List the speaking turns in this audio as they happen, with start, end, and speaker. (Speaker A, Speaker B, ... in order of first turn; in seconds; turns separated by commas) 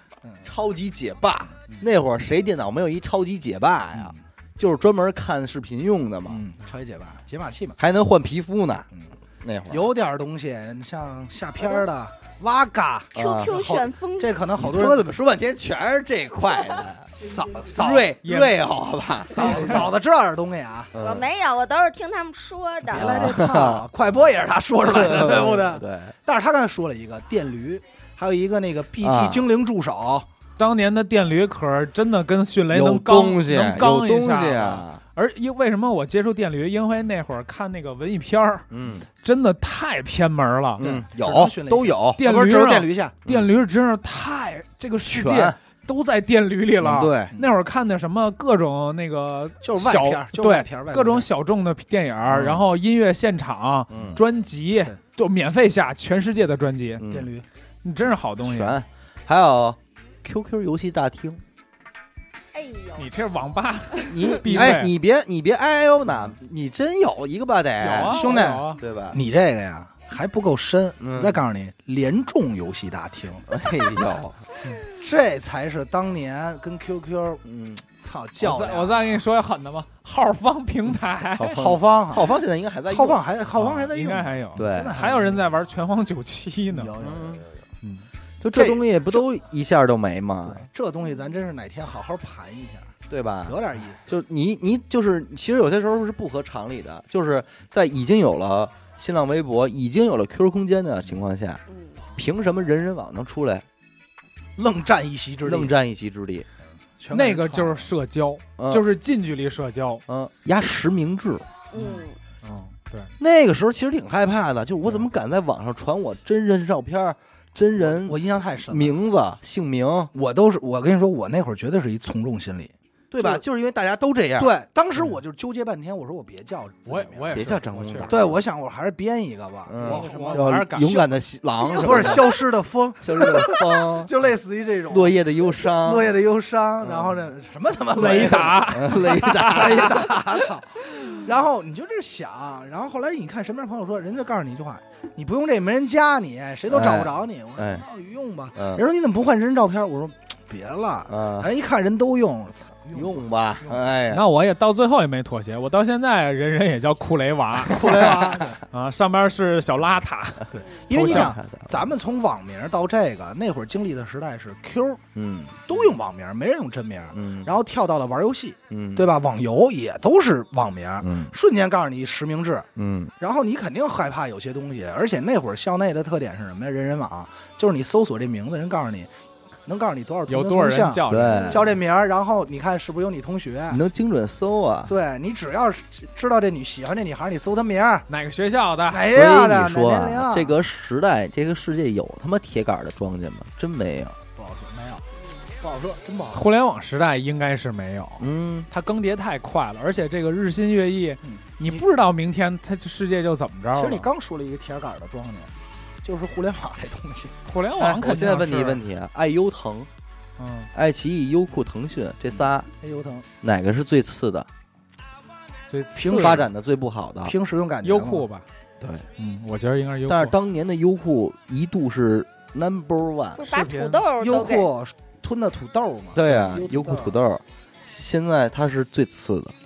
Speaker A: 0.4-6.4, Speaker B: 3.9-4.2, Speaker B: 6.3-7.8, Speaker A: 7.8-8.9, Speaker A: 9.4-9.9, Speaker B: 9.7-15.1, Speaker C: 13.1-14.4, Speaker A: 13.2-13.6, Speaker A: 14.6-17.1, Speaker B: 17.2-18.2, Speaker A: 17.8-19.8, Speaker D: 18.2-18.6, Speaker B: 19.3-20.9, Speaker A: 20.9-21.3, Speaker C: 21.0-23.1, Speaker B: 22.9-30.3, Speaker A: 22.9-23.9, Speaker A: 24.9-26.1, Speaker A: 29.0-29.4, Speaker D: 30.6-38.7, Speaker A: 32.7-35.0, Speaker A: 38.7-39.1, Speaker D: 39.2-40.9, Speaker B: 40.8-43.2, Speaker A: 40.8-42.2, Speaker D: 42.2-57.0, Speaker A: 45.0-45.6, Speaker A: 46.8-47.4, Speaker B: 49.6-51.3, Speaker A: 52.3-52.6, Speaker A: 53.9-54.2, Speaker A: 57.0-57.3, Speaker B: 57.1-57.5, Speaker D: 57.8-58.8, Speaker A: 58.4-61.4, Speaker C: 62.5-63.1, Speaker D: 63.0-64.9, Speaker A: 64.0-69.2, Speaker D: 67.8-68.8, Speaker B: 68.1-73.5, Speaker A: 71.0-71.4, Speaker A: 73.5-74.4, Speaker B: 74.9-79.1, Speaker A: 77.4-77.8, Speaker D: 78.4-81.7, Speaker A: 81.4-83.2, Speaker B: 81.6-82.3, Speaker B: 82.9-85.5, Speaker D: 83.5-86.9, Speaker A: 84.5-85.0, Speaker B: 86.7-87.4, Speaker A: 87.0-87.5, Speaker A: 88.4-90.7, Speaker B: 88.5-89.2, Speaker B: 90.4-94.1, Speaker A: 93.1-101.6, Speaker C: 101.7-102.0, Speaker A: 102.2-103.7, Speaker B: 104.6-105.8, Speaker A: 105.5-106.5, Speaker B: 107.0-107.9, Speaker D: 107.1-110.0, Speaker A: 108.6-108.8, Speaker A: 110.1-111.5, Speaker C: 111.7-112.2, Speaker D: 111.8-113.1, Speaker A: 113.2-120.1, Speaker B: 117.8-119.0, Speaker B: 120.1-123.4, Speaker A: 123.1-124.5, Speaker B: 124.4-127.4, Speaker D: 126.9-128.1, Speaker A: 127.3-128.4, Speaker B: 128.1-131.2, Speaker A: 129.7-132.4, Speaker D: 129.8-131.0, Speaker B: 131.7-153.8, Speaker A: 133.0-134.1, Speaker A: 134.9-136.1, Speaker A: 136.8-137.2, Speaker D: 137.9-140.0, Speaker A: 138.0-140.1, Speaker A: 146.7-147.9, Speaker A: 148.6-148.8, Speaker A: 151.1-151.5, Speaker A: 152.9-154.2, Speaker D: 154.1-161.3, Speaker B: 157.7-158.6, Speaker A: 157.8-158.5, Speaker B: 160.5-165.0, Speaker A: 160.9-161.9, Speaker A: 165.2-165.7, Speaker B: 165.7-172.7, Speaker A: 167.1-167.5, Speaker A: 168.7-169.1, Speaker A: 171.0-171.3, Speaker A: 172.8-173.1, Speaker B: 173.2-179.1, Speaker B: 179.7-183.8, Speaker D: 180.3-181.7, Speaker A: 181.1-181.6, Speaker A: 183.7-184.9, Speaker B: 184.9-188.1, Speaker D: 188.1-189.1, Speaker B: 188.9-190.6, Speaker A: 189.1-194.2, Speaker B: 194.4-195.0, Speaker B: 195.6-196.5, Speaker D: 196.3-204.1, Speaker A: 198.2-198.7, Speaker B: 201.2-201.8, Speaker B: 203.8-207.4, Speaker D: 207.5-208.8, Speaker A: 207.8-209.9, Speaker D: 210.4-210.7, Speaker A: 210.7-212.7, Speaker B: 212.8-213.3, Speaker A: 213.4-214.5, Speaker D: 215.7-216.4, Speaker B: 215.9-216.4, Speaker A: 216.1-217.3, Speaker B: 217.2-218.3, Speaker D: 217.8-218.5, Speaker A: 218.8-219.1, Speaker D: 219.2-220.3, Speaker A: 220.1-223.4, Speaker C: 223.4-224.7, Speaker D: 223.4-224.1, Speaker B: 224.2-227.2, Speaker A: 226.2-229.6